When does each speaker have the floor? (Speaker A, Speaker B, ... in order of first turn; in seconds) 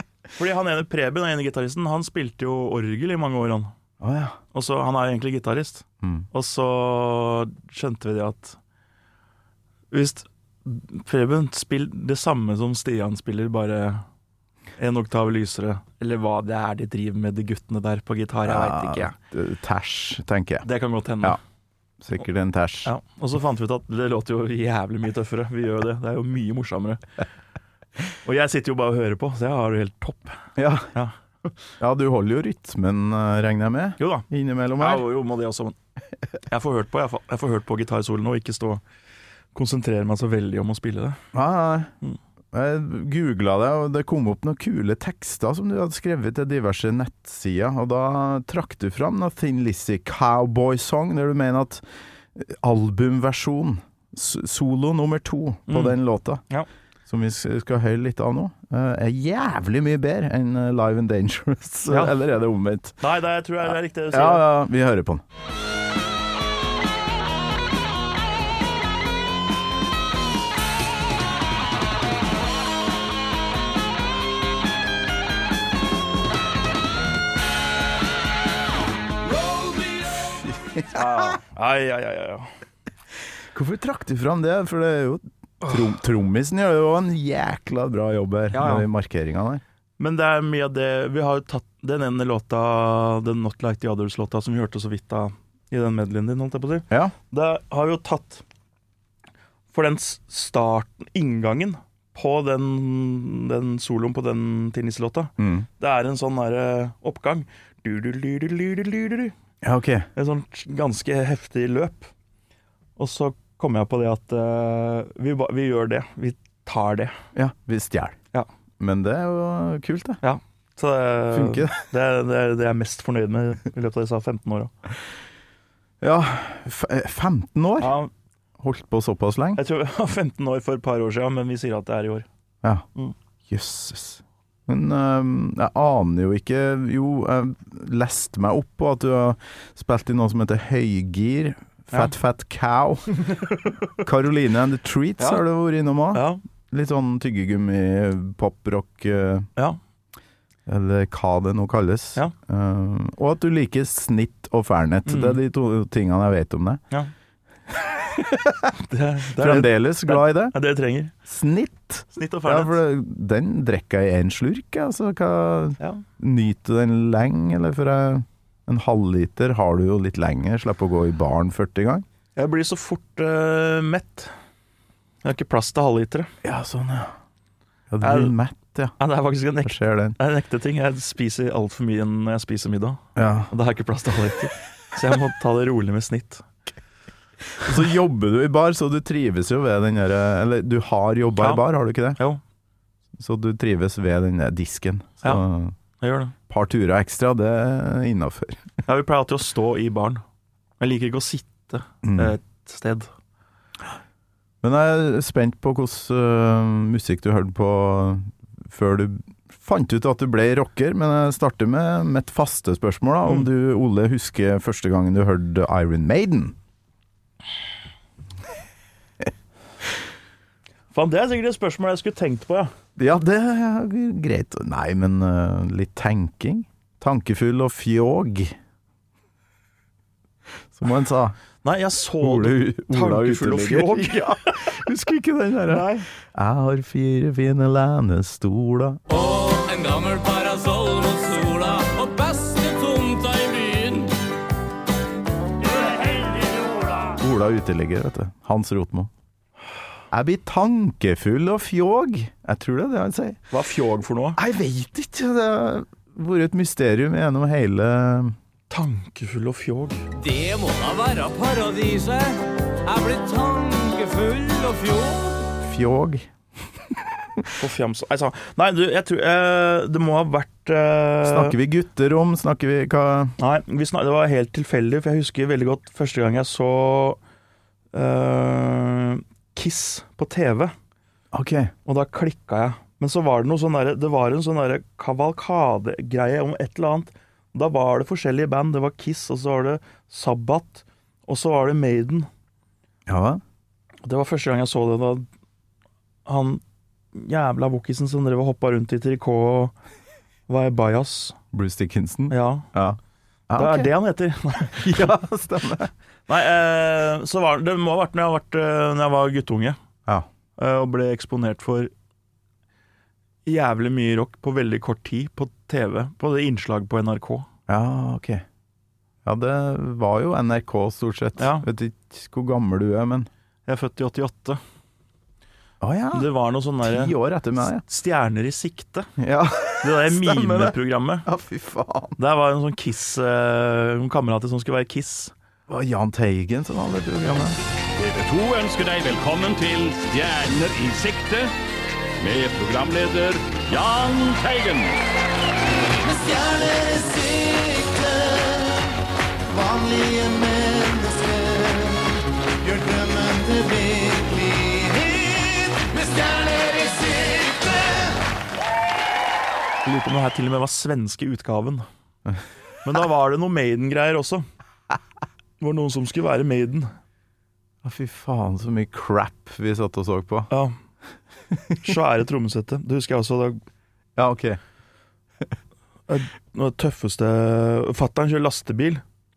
Speaker A: 0.3-3.7, 4.5-8.6, 9.9-14.0, 14.8-19.1, 20.6-21.4, 22.8-27.0, 28.2-31.1, 34.0-34.2, 34.8-35.8, 36.5-38.8, 39.5-41.2, 55.7-56.0, 61.9-62.1, 63.0-64.5, 80.9-82.5, 88.5-88.9, 90.0-98.4, 99.7-109.3, 110.2-112.1, 113.0-117.2, 120.2-124.7, 127.8-128.1, 129.6-132.2, 146.1-146.4, 155.1-155.4, 158.8-161.1, 162.1-162.8, 172.3-174.3, 175.2-176.3, 178.0-178.3, 179.0-186.4, 191.4-191.6, 192.2-192.4, 196.0-196.3, 198.8-200.2, 200.8-203.1, 220.9-222.7, 231.6-234.7, 235.7-236.1, 253.5-254.4, 258.7-260.1, 267.6-271.6, 273.4-277.2, 277.9-280.7, 281.9-292.3, 294.0-295.2, 296.2-296.6, 297.1-299.7, 300.5-301.4, 302.3-302.7, 303.6-305.1, 306.3-309.8, 310.6-311.9, 313.4-317.5, 321.4-321.6, 323.7-324.6, 326.1-327.1, 327.8-329.1, 329.8-331.2, 332.2-335.3, 359.8-361.9, 362.8-364.4, 365.6-366.9, 370.5-370.8, 371.8-373.6, 376.1-379.0
Speaker B: 4.0-4.4, 6.0-6.3, 18.4-20.6, 22.0-22.9, 30.6-30.9, 31.8-35.1, 41.3-41.9, 42.5-51.8, 52.3-56.4, 57.1-63.0, 63.7-65.2, 80.3-81.4, 83.5-89.6, 105.4-105.7, 109.6-110.1, 117.3-118.2, 118.8-120.2, 121.3-121.8, 126.0-127.9, 128.6-129.6, 133.5-143.2, 144.0-149.5, 150.7-156.8, 157.8-158.7, 159.3-160.5, 161.2-172.1, 176.4-177.1, 177.9-178.9, 179.6-180.2, 183.2-183.5, 187.6-192.2, 193.2-195.7, 196.5-198.7, 202.0-202.3, 204.6-216.6, 222.9-228.6, 230.7-231.4, 232.2-239.0, 247.2-249.1, 250.1-253.4, 254.4-258.4, 265.6-266.3, 266.9-267.5, 271.2-273.3, 281.3-281.7, 293.1-293.4, 301.5-303.9, 304.7-305.9, 317.7-318.4, 319.2-323.3, 325.8-326.3, 326.8-327.8, 329.2-332.2, 335.7-337.6, 367.8-370.5, 371.5-371.9, 374.1-374.6
Speaker C: 79.5-80.0, 346.0-348.9, 349.5-352.1, 352.6-358.1
Speaker D: 239.1-244.1, 245.9-247.1, 260.1-265.5
Speaker E: 338.0-341.5, 342.2-345.0